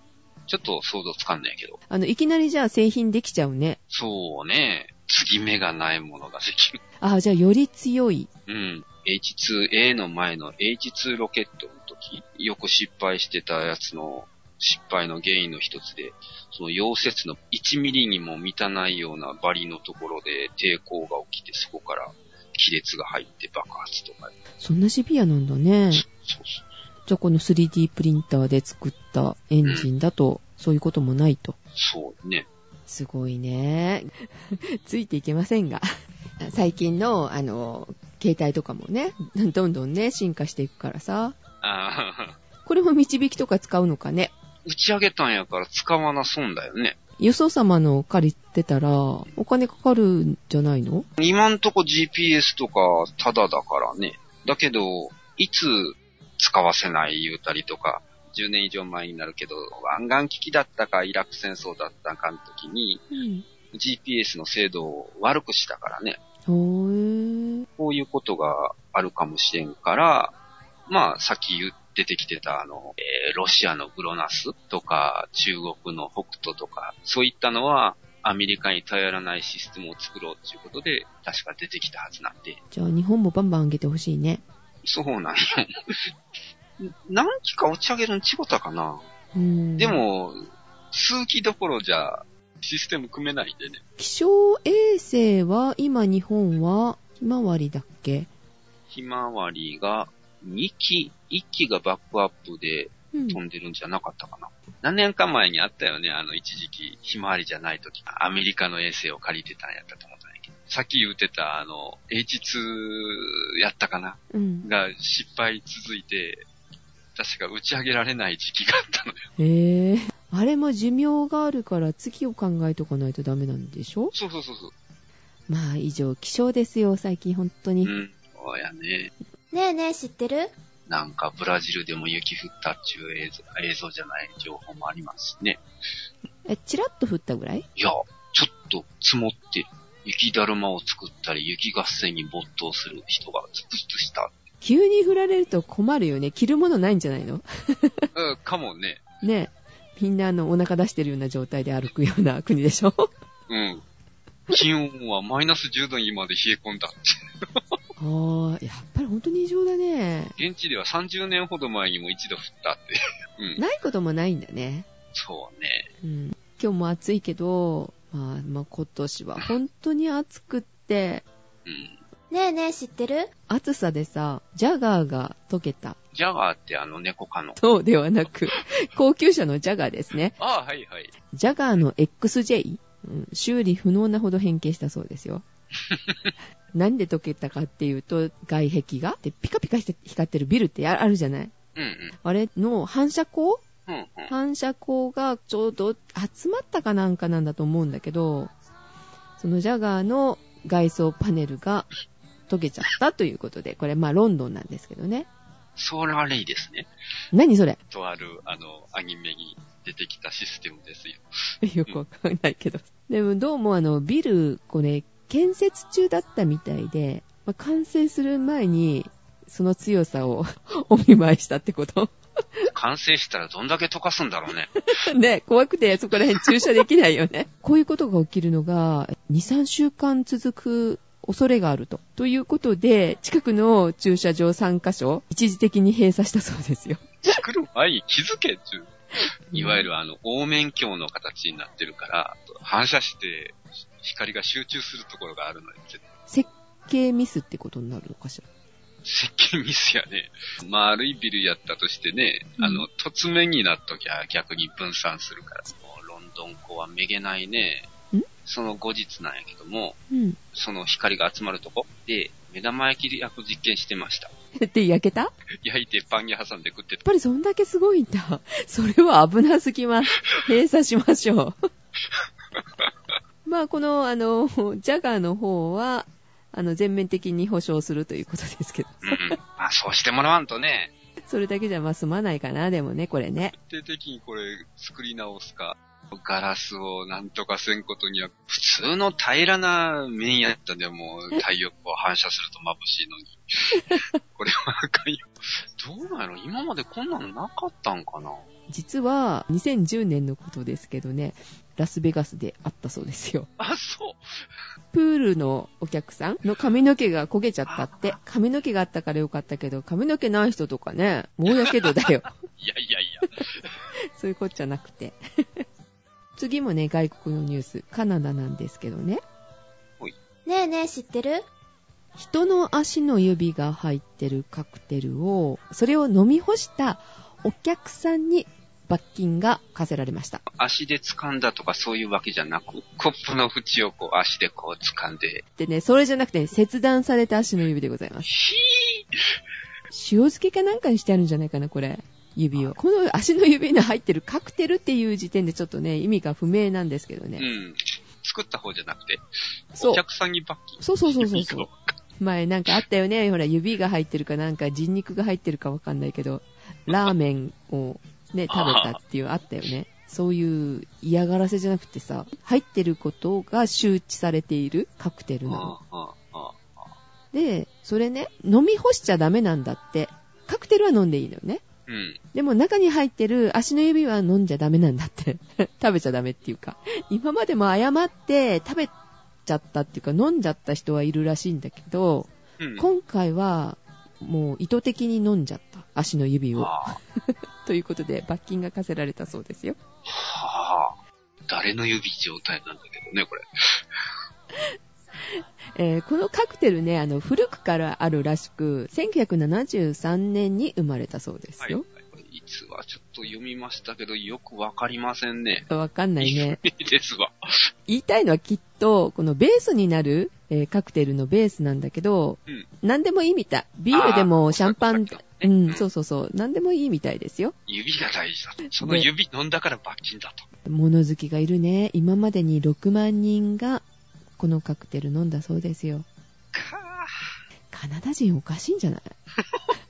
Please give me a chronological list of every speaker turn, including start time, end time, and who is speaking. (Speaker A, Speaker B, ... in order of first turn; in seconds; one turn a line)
Speaker A: 0.5-1.8
Speaker B: 1.9-3.8
Speaker A: 3.9-6.8
Speaker B: 7.0-8.3
Speaker A: 8.5-24.3
Speaker B: 24.6-26.0
Speaker A: 25.9-26.7
Speaker B: 27.1-31.5
Speaker A: 31.8-32.5
Speaker B: 32.9-35.9
Speaker B: 36.4-41.4
Speaker A: 41.6-42.4
Speaker B: 42.6-44.3
Speaker A: 44.6-47.0
Speaker B: 47.2-51.1
Speaker A: 51.2-63.1
Speaker B: 63.1-63.5
Speaker A: 63.7-66.2
Speaker B: 66.5-67.7
Speaker A: 67.8-70.3
Speaker A: 70.9-82.6
Speaker B: 82.7-84.4
Speaker A: 84.8-86.1
Speaker A: 86.8-89.0
Speaker B: 89.3-90.0
Speaker A: 89.8-93.8
Speaker B: 94.0-98.3
Speaker A: 98.9-116.5
Speaker B: 103.1-103.4
Speaker B: 114.3-114.7
Speaker A: 117.1-119.3
Speaker B: 119.4-124.1
Speaker A: 124.1-124.7
Speaker B: 125.5-127.9
Speaker A: 127.8-129.1
Speaker C: 129.5-130.5
Speaker A: 130.9-135.6
Speaker B: 136.4-137.7
Speaker A: 137.8-144.3
Speaker B: 144.6-148.1
Speaker A: 148.1-149.0
Speaker B: 149.2-153.1
Speaker A: 153.5-153.8
Speaker A: 154.5-157.6
Speaker B: 158.0-160.3
Speaker A: 160.3-163.6
Speaker B: 163.6-164.8
Speaker A: 165.1-165.9
Speaker B: 166.0-171.2
Speaker A: 171.6-172.0
Speaker C: 172.3-173.3
Speaker B: 173.5-176.0
Speaker A: 176.1-177.6
Speaker B: 177.6-180.3
Speaker A: 180.4-181.1
Speaker B: 181.3-185.4
Speaker A: 185.8-186.3
Speaker B: 186.7-191.5
Speaker A: 191.8-192.1
Speaker B: 192.2-193.6
Speaker A: 193.9-194.3
Speaker B: 194.3-198.5
Speaker B: 199.4-201.9
Speaker B: 202.5-205.3
Speaker A: 205.8-206.9
Speaker B: 207.3-207.8
Speaker A: 207.9-212.0
Speaker B: 211.6-222.7
Speaker A: 222.7-224.7
Speaker B: 224.9-237.2
Speaker A: 237.2-246.0
Speaker B: 239.5-239.8
Speaker B: 246.3-248.5
Speaker A: 249.0-257.9
Speaker B: 252.6-252.8
Speaker A: 258.4-260.0
Speaker B: 260.1-260.4
Speaker A: 260.5-264.3
Speaker B: 264.6-265.3
Speaker A: 265.6-267.0
Speaker B: 267.0-271.6
Speaker A: 272.5-272.9
Speaker B: 273.4-279.4
Speaker A: 279.0-280.9
Speaker B: 281.3-283.5
Speaker A: 283.6-298.4
Speaker B: 298.7-303.5
Speaker A: 303.6-304.5
Speaker B: 304.9-312.3
Speaker A: 312.6-313.7
Speaker B: 314.0-315.6
Speaker B: 316.4-319.2
Speaker C: 320.4-321.4
Speaker B: 322.2-330.4
Speaker A: 330.5-335.4
Speaker B: 335.6-338.3
Speaker A: 338.3-339.4
Speaker B: 339.9-347.5
Speaker A: 347.4-349.2
Speaker A: 349.7-351.9
Speaker B: 350.8-351.7
Speaker B: 352.2-365.7
Speaker A: 358.5-359.0
Speaker A: 365.5-366.9
Speaker B: 367.3-371.6
Speaker A: 371.9-372.2
Speaker B: 372.3-378.9
Speaker B: 379.4-389.8
Speaker A: 382.6-382.9
Speaker A: 386.5-387.0
Speaker A: 390.1-390.9
Speaker A: 391.5-394.0
Speaker B: 395.3-401.8
Speaker A: 401.6-405.7
Speaker B: 405.7-406.6
Speaker A: 406.2-407.6
Speaker B: 407.9-417.5
Speaker A: 413.9-415.8
Speaker A: 417.7-420.5
Speaker B: 418.8-419.1
Speaker B: 420.6-423.8
Speaker B: 424.4-426.1
Speaker A: 426.5-427.4
Speaker B: 427.7-429.0